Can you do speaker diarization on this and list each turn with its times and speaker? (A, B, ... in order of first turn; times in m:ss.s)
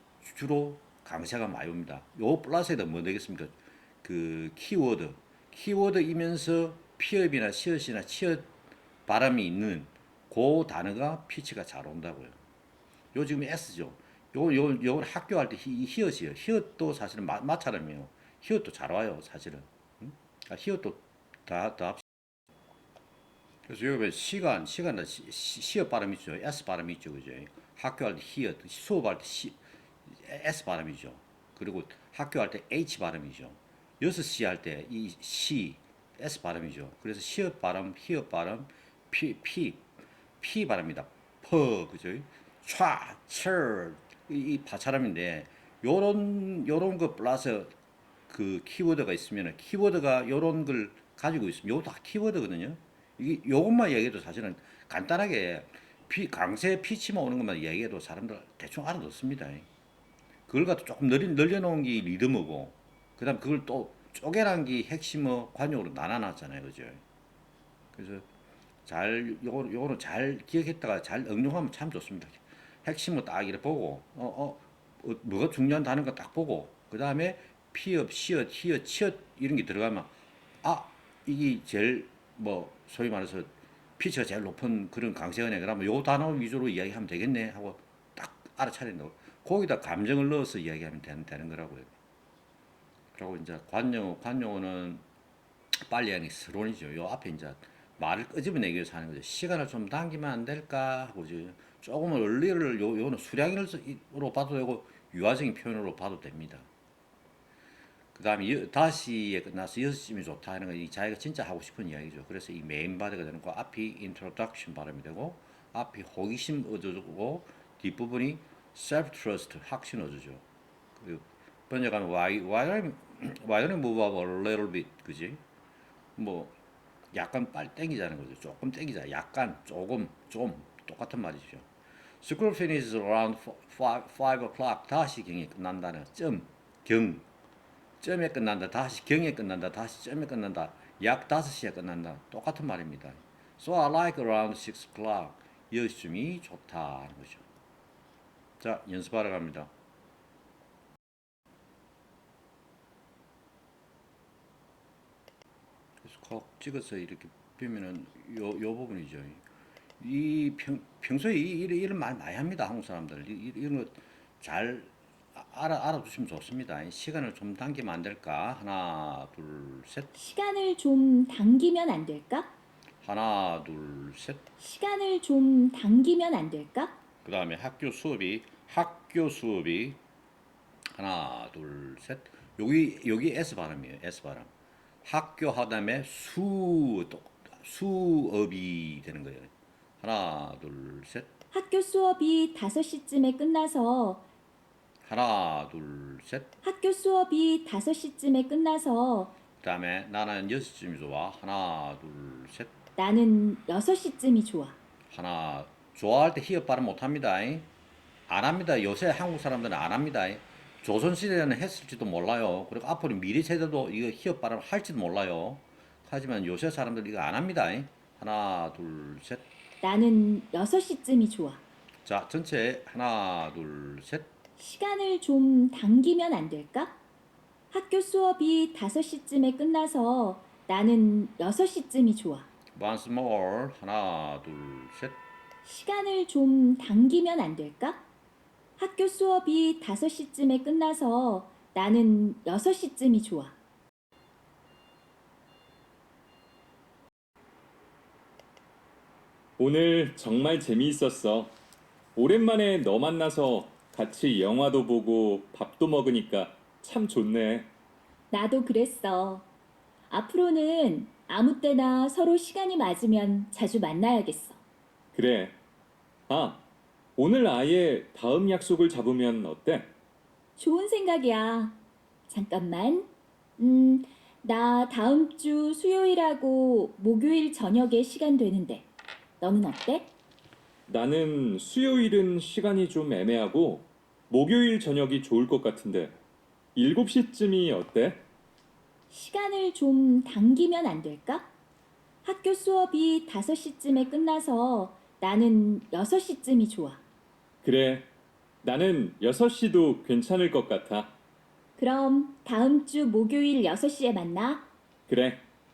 0:00.2-0:08.5 A
0:09.0-0:12.4 A
0:13.1-0:22.0 A
0:23.6-0:39.9 A
0:40.4-0:47.7 A
0:48.3-0:59.7 A
1:00.5-1:07.0 A
1:07.9-1:08.3 A
1:08.8-1:31.9 A
1:33.1-1:35.0 A
1:35.7-1:46.7 A
1:48.1-2:00.4 A
2:01.0-2:05.4 A
2:06.2-2:06.5 A
2:07.1-2:11.7 A
2:12.2-2:17.3 A
2:18.0-2:27.4 A
2:28.6-2:29.7 A
2:36.0-2:39.4 A
2:40.0-2:50.1 A
2:50.1-2:52.5 B
2:53.0-2:54.5 A
2:54.6-2:56.9 B
2:57.2-3:00.0 A
3:00.9-3:04.5 A
3:05.0-3:11.3 A
3:11.5-3:14.2 B
3:15.0-3:16.5 A
3:16.6-3:19.3 B
3:19.6-3:22.7 A
3:23.0-3:24.8 B
3:25.1-3:27.7 A
3:28.3-3:39.4 A
3:39.8-3:41.6 B
3:42.0-3:44.3 A
3:44.6-3:47.0 B
3:47.7-3:52.5 B
3:52.7-3:55.2 A
3:55.6-3:58.0 B
3:58.8-4:03.5 B
4:09.6-4:11.5 C
4:12.2-4:17.7 C
4:18.3-4:19.5 B
4:20.1-4:24.6 B
4:25.1-4:25.5 C
4:26.3-4:26.6 C
4:27.2-4:29.9 C
4:30.6-4:38.9 B
4:39.4-4:40.1 B
4:40.9-4:46.2 C
4:46.7-4:48.2 C
4:49.1-4:51.5 B
4:52.2-4:57.0 B
4:57.6-4:58.1 C
4:58.6-5:01.1 C
5:01.8-5:04.7 B
5:05.1-5:05.4 C